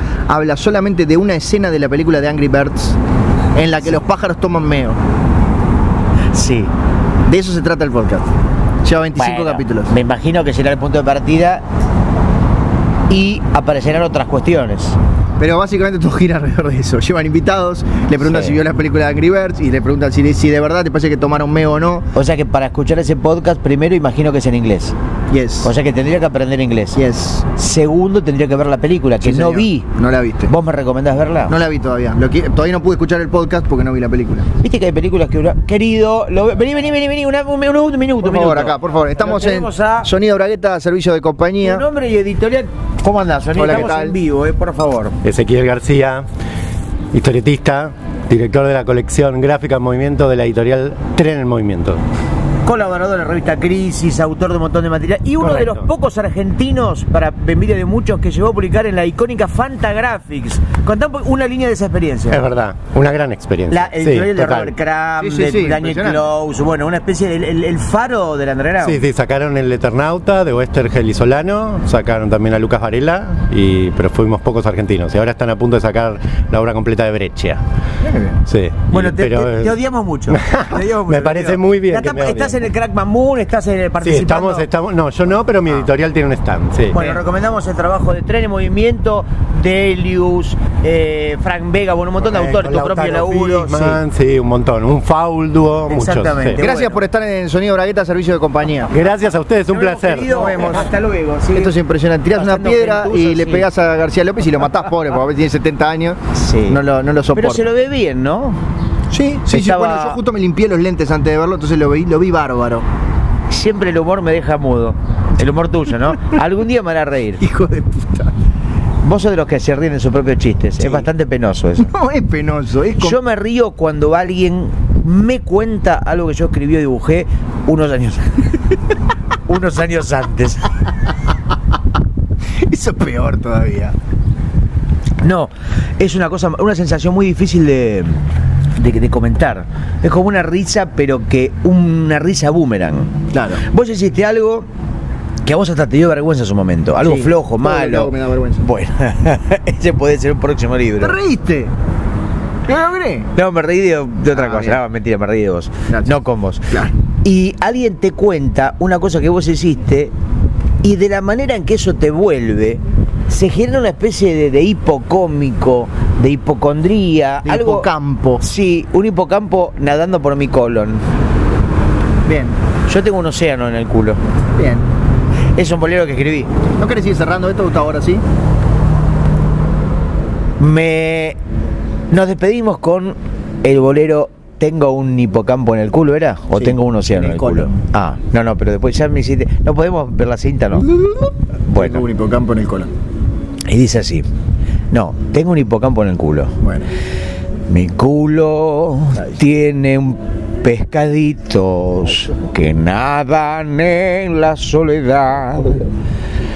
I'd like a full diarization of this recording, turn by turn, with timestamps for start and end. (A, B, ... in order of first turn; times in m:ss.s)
0:00.3-0:03.0 A
0:03.6-0:05.0 A
0:06.3-0:06.7 B
0:07.3-0:09.9 A
0:09.2-0:11.6 B
0:13.1-0:15.0 B
0:15.4-0:22.1 A
0:18.2-0:18.6 B
0:22.2-0:25.0 B
0:25.3-0:25.7 A
0:25.6-0:29.9 B
0:27.0-0:27.5 A
0:29.2-0:30.5 A
0:30.5-0:31.6 B
0:31.5-0:34.5 A
0:34.6-0:40.1 B
0:38.2-0:41.9 A
0:41.6-0:45.2 B
0:43.5-0:44.2 A
0:45.2-0:46.3 C
0:47.1-0:52.0 C
0:52.6-1:02.4 B
0:55.4-0:55.9 C
1:02.3-1:04.7 C
1:03.7-1:09.0 B
1:05.2-1:06.3 A
1:08.8-1:17.6 C
1:18.0-1:18.4 A
1:18.5-1:19.8 C
1:18.9-1:24.7 B
1:20.3-1:22.7 C
1:24.0-1:27.0 C
1:26.9-1:33.9 B
1:27.0-1:27.2 A
1:32.3-1:36.6 C
1:33.7-1:34.0 A
1:35.9-1:37.0 B
1:36.6-1:38.9 A
1:38.9-1:40.5 C
1:39.7-1:41.8 B
1:40.2-1:40.9 A
1:41.5-1:47.7 A
1:42.3-1:43.7 B
1:46.3-1:46.8 B
1:47.3-1:48.6 B
1:49.1-1:52.9 A
1:49.5-1:50.2 B
1:53.5-1:57.4 B
1:57.4-1:58.3 A
1:59.0-2:01.9 B
2:00.8-2:01.1 A
2:01.8-2:03.2 A
2:03.0-2:08.6 B
2:09.5-2:10.7 B
2:12.7-2:14.0 A
2:15.2-2:18.2 B
2:18.8-2:24.7 B
2:23.3-2:23.6 A
2:25.4-2:31.2 B
2:27.0-2:28.7 A
2:31.0-2:31.7 A
2:32.7-2:33.3 A
2:33.3-2:40.1 B
2:34.3-2:34.8 A
2:35.9-2:36.1 A
2:40.8-2:47.9 B
2:47.4-2:48.4 A
2:48.4-2:51.0 B
2:52.3-2:52.6 A
2:52.9-2:54.2 B
2:54.6-2:54.8 A
2:55.6-2:56.5 B
2:56.8-2:58.2 A
3:00.6-3:01.4 B
3:02.1-3:10.9 B
3:06.6-3:07.8 A
3:10.8-3:12.9 A
3:11.7-3:12.0 B
3:13.7-3:14.3 B
3:14.9-3:16.6 B
3:16.6-3:16.9 A
3:17.7-3:25.9 B